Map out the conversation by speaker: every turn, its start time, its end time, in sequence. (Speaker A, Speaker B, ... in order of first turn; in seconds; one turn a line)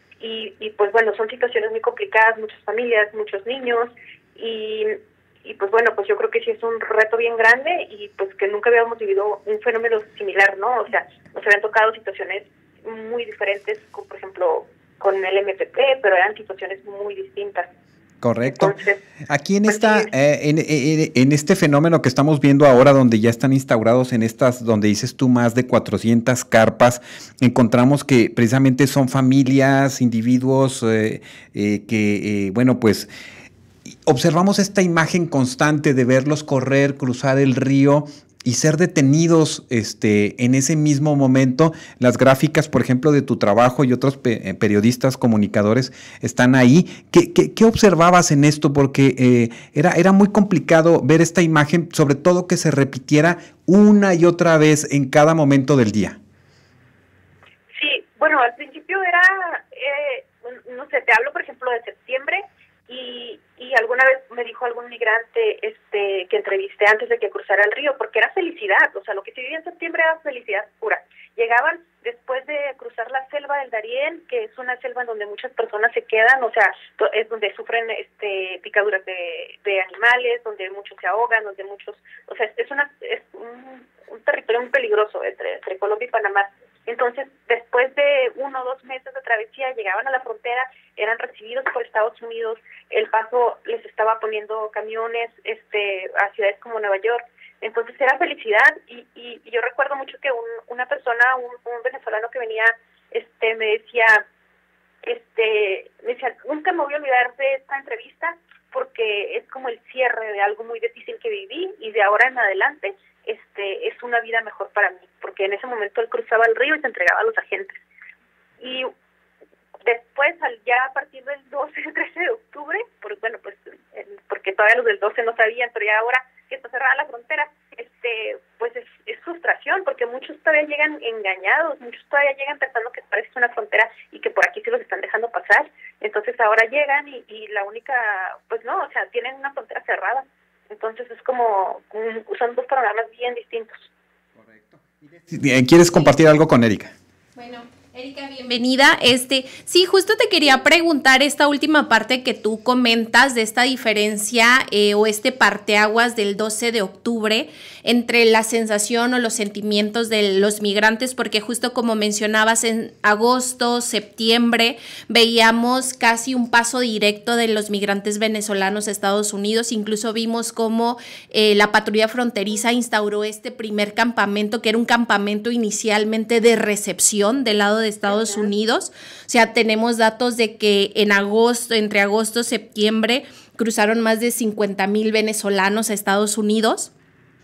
Speaker A: 0.2-17.7
Speaker B: 18.2-18.8
Speaker A: 18.4-19.0
Speaker B: 19.3-33.1
Speaker A: 19.7-20.1
Speaker B: 34.0-56.2
Speaker A: 57.7-104.2
Speaker A: 105.0-117.8
Speaker A: 118.6-118.9
Speaker A: 119.8-143.9
Speaker B: 144.3-146.9
Speaker C: 147.3-186.9